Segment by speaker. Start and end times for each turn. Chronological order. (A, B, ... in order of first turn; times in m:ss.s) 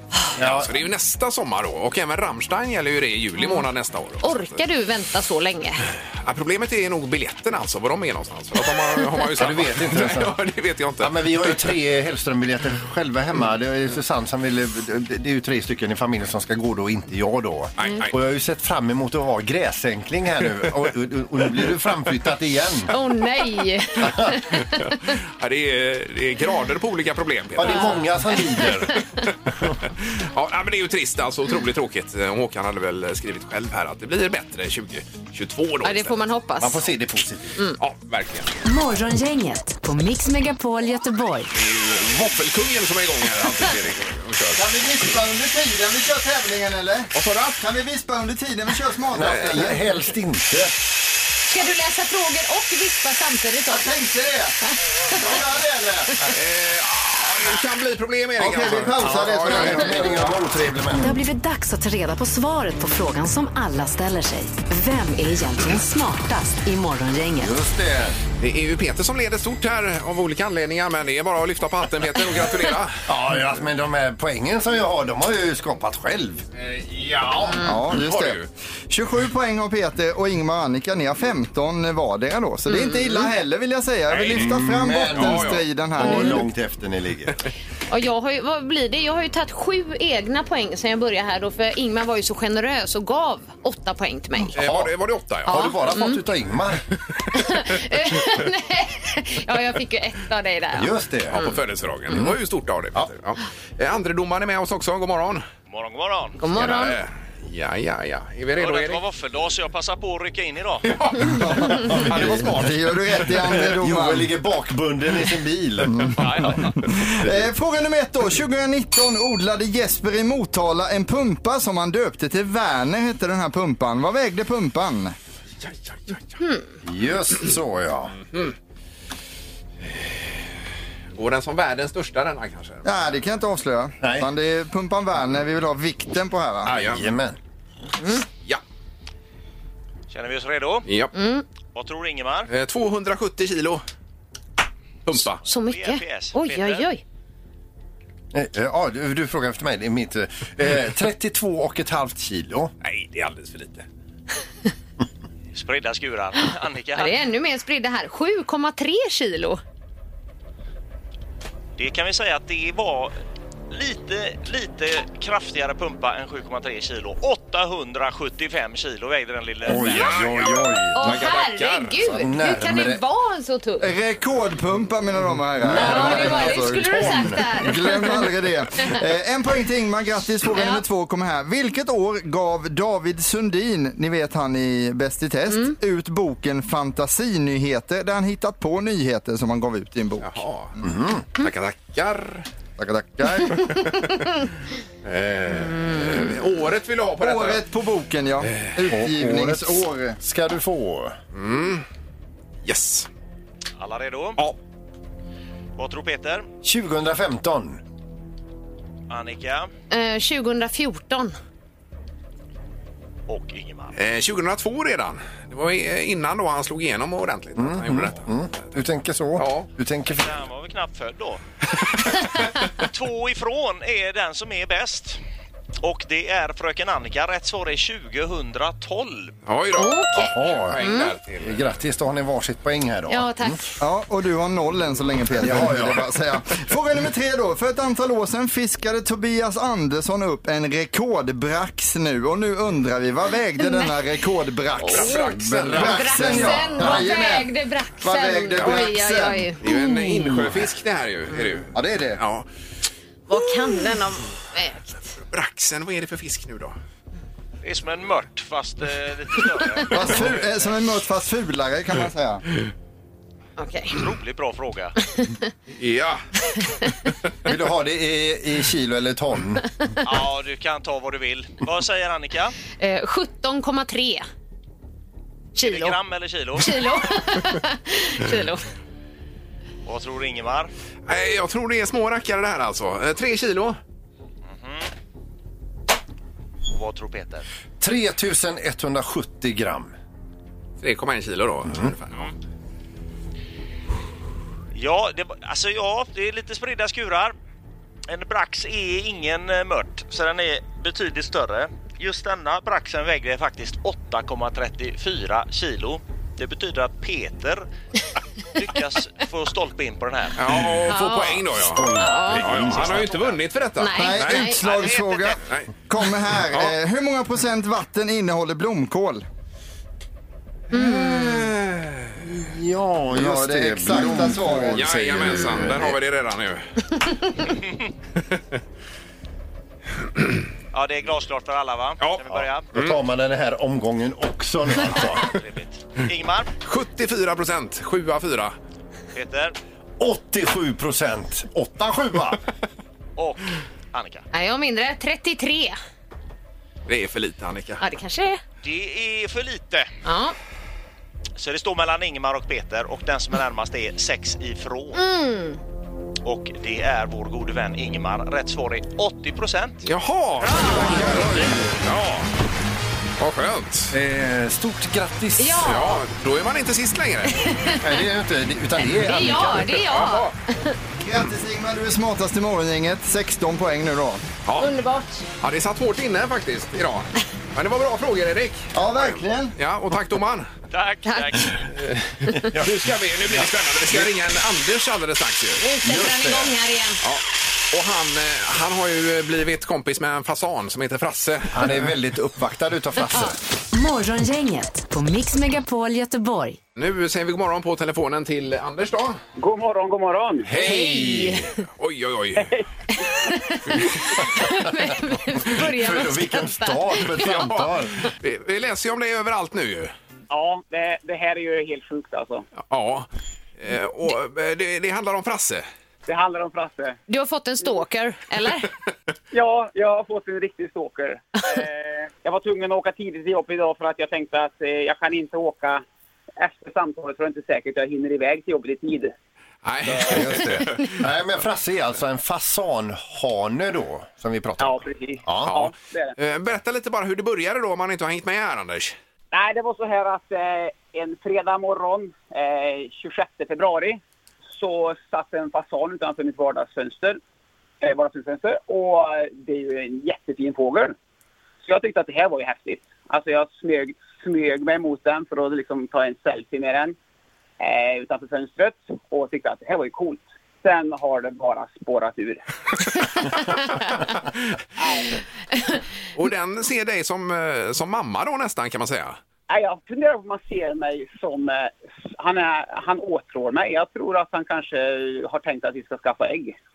0:00.4-0:04.6 A
0:00.4-0:00.7 B
0:04.2-0:05.8 C
0:06.2-0:11.7 A
0:09.4-0:10.3 B
0:11.0-0:22.9 B
0:17.8-0:18.1 A
0:22.9-0:24.8 C
0:24.0-0:24.4 B
0:24.6-0:28.0 A
0:27.6-0:29.0 B
0:27.7-0:28.6 C
0:30.0-0:36.2 A
0:35.8-0:36.8 C
0:36.6-0:37.5 B
0:37.8-0:38.5 A
0:38.6-0:41.5 D
0:41.5-0:44.6 A
0:44.5-0:49.8 E
0:47.1-0:47.6 A
0:49.1-0:50.8 B
0:49.2-0:49.5 A
0:51.5-0:53.9 C
0:53.7-0:54.6 E
0:55.1-0:56.3 E
0:56.3-1:00.4 A
0:58.4-1:00.1 E
0:58.5-1:01.2 B
1:00.9-1:07.5 D
1:07.4-1:08.2 B
1:08.4-1:13.0 A
1:13.1-1:16.4 B
1:16.6-1:18.4 A
1:17.6-1:26.4 E
1:22.7-1:23.3 C
1:24.1-1:24.5 A
1:24.2-1:27.4 B
1:25.1-1:25.6 A
1:26.0-1:26.4 C
1:27.9-1:34.6 C
1:34.5-1:35.7 A
1:34.6-1:34.9 B
1:35.4-1:36.8 B
1:35.5-1:36.2 C
1:37.3-1:41.6 C
1:40.7-1:41.4 B
1:41.3-1:45.4 A
1:42.1-1:42.4 B
1:45.7-1:46.5 F
1:46.4-1:47.0 C
1:46.5-1:49.0 A
1:48.6-1:50.9 F
1:50.9-1:53.3 A
1:51.2-1:54.3 E
1:51.8-1:52.5 B
1:53.4-1:57.4 B
1:55.9-2:05.2 E
2:05.6-2:06.3 A
2:06.8-2:08.2 B
2:09.9-2:10.2 A
2:11.1-2:13.1 A
2:12.8-2:16.7 E
2:14.0-2:14.3 B
2:16.6-2:17.4 B
2:16.7-2:17.0 A
2:20.1-2:20.9 F
2:20.8-2:21.1 A
2:21.1-2:21.4 C
2:21.7-2:22.5 F
2:22.5-2:23.8 A
2:25.0-2:25.4 A
2:25.4-2:27.0 C
2:25.5-2:26.9 F
2:28.3-2:32.7 B
2:32.8-2:33.8 A
2:35.5-2:37.2 F
2:36.9-2:39.6 C
2:41.8-2:43.1 F
2:43.7-2:50.2 F
2:49.6-2:51.1 B
2:49.8-2:52.0 A
2:50.9-2:53.9 C
2:52.0-2:53.0 B
2:53.8-3:10.9 E
2:55.6-2:57.7 B
2:55.7-2:58.2 C
3:00.6-3:00.8 C
3:10.2-3:10.7 A
3:10.8-3:11.2 B
3:11.4-3:12.5 A
3:12.8-3:13.9 E
3:15.0-3:17.6 A
3:15.8-3:16.2 C
3:17.2-3:20.2 E
3:18.4-3:18.8 A
3:18.9-3:21.2 B
3:21.3-3:21.8 A
3:22.6-3:23.1 A
3:23.8-3:24.4 F
3:25.8-3:26.5 F
3:26.6-3:27.8 B
3:29.1-3:29.7 F
3:29.9-3:31.3 C
3:33.3-3:33.9 F
3:33.9-3:38.7 A
3:37.6-3:40.3 B
3:39.4-3:39.7 A
3:40.1-3:41.4 F
3:42.7-3:45.2 F
3:45.8-3:49.3 F
3:49.4-3:51.6 A
3:49.8-3:51.1 C
3:50.1-3:50.8 B
3:51.4-3:53.6 B
3:53.1-3:53.7 C
3:53.8-4:09.5 E
3:55.4-3:56.1 B
4:03.6-4:03.9 C
4:04.8-4:10.2 C
4:04.8-4:06.5 A
4:05.2-4:07.1 B
4:09.6-4:12.4 A
4:11.7-4:12.2 E
4:13.3-4:14.9 C
4:15.3-4:16.8 A
4:17.6-4:20.2 F
4:19.9-4:22.4 E
4:23.6-4:24.0 C
4:23.9-4:24.9 F
4:25.2-4:25.4 C
4:25.8-4:26.2 A
4:27.4-4:29.6 B
4:30.0-4:32.6 F
4:32.8-4:34.2 C
4:35.6-4:36.0 C
4:35.6-4:36.8 F
4:36.6-4:38.6 C
4:39.8-4:40.7 F
4:41.1-4:43.8 A
4:44.4-4:44.9 F
4:46.7-4:47.4 F
4:47.8-4:49.9 B
4:50.8-4:52.3 A
4:51.6-4:51.9 B
4:54.7-4:57.3 F
4:58.1-5:07.7 F
5:08.5-5:10.4 F
5:10.4-5:14.6 A
5:10.6-5:10.9 B
5:10.9-5:12.5 C
5:11.5-5:13.1 B
5:12.6-5:13.4 F
5:13.8-5:14.6 C
5:14.0-5:19.2 E
5:14.6-5:15.3 F
5:15.4-5:15.7 A
5:16.4-5:16.7 A
5:20.7-5:21.5 C
5:20.7-5:21.6 B
5:22.2-5:26.0 B
5:23.1-5:25.3 E
5:24.7-5:26.7 A
5:27.4-5:27.9 F
5:30.7-5:32.7 F
5:32.0-5:33.0 A
5:32.7-5:35.3 B
5:35.0-5:36.5 F
5:36.6-5:38.6 A
5:39.1-5:39.6 F
5:40.0-5:42.4 B
5:43.2-5:44.2 F
5:44.3-5:45.8 C
5:46.9-5:47.8 A
5:47.8-5:48.4 C
5:48.6-5:49.9 F
5:50.0-5:50.3 C
5:51.4-5:55.0 F
5:54.9-5:55.6 C
5:56.2-5:59.8 F
5:59.8-6:02.3 A
6:00.4-6:00.8 F
6:00.6-6:01.8 B
6:00.7-6:01.2 C
6:03.2-6:03.9 A
6:03.9-6:05.8 B
6:05.4-6:06.0 C
6:05.6-6:07.4 A
6:07.3-6:07.8 C
6:07.8-6:09.8 B
6:08.8-6:10.7 C
6:09.8-6:10.3 A
6:11.0-6:14.2 E
6:14.4-6:14.7 A
6:14.6-6:15.2 C
6:15.4-6:20.5 A
6:18.7-6:19.5 E
6:20.7-6:21.6 F
6:21.0-6:21.5 C
6:21.8-6:25.6 A
6:23.3-6:24.1 B
6:25.6-6:27.0 C
6:25.8-6:26.5 B
6:27.0-6:31.8 A
6:31.5-6:33.4 B
6:33.7-6:36.6 D
6:36.8-6:39.2 A
6:39.4-6:40.5 G
6:40.5-6:41.5 B
6:40.6-6:41.4 C
6:40.7-6:42.5 A
6:42.4-6:42.6 G
6:42.9-6:47.7 C
6:44.4-6:44.8 B
6:45.4-6:48.0 B
6:47.5-6:49.9 A
6:50.3-6:52.5 G
6:52.6-6:53.1 A
6:53.6-6:55.6 A
6:56.0-6:57.0 G
6:57.1-6:58.7 C
6:59.3-7:05.8 G
7:06.4-7:09.1 G
7:09.6-7:11.0 A
7:09.8-7:15.5 B
7:14.6-7:16.1 G
7:15.4-7:19.0 A
7:19.3-7:24.0 G
7:24.5-7:27.2 G
7:27.8-7:30.9 G
7:31.6-7:37.0 G
7:37.6-7:42.4 G
7:44.8-7:45.2 G
7:46.1-7:49.2 A
7:49.5-7:56.6 G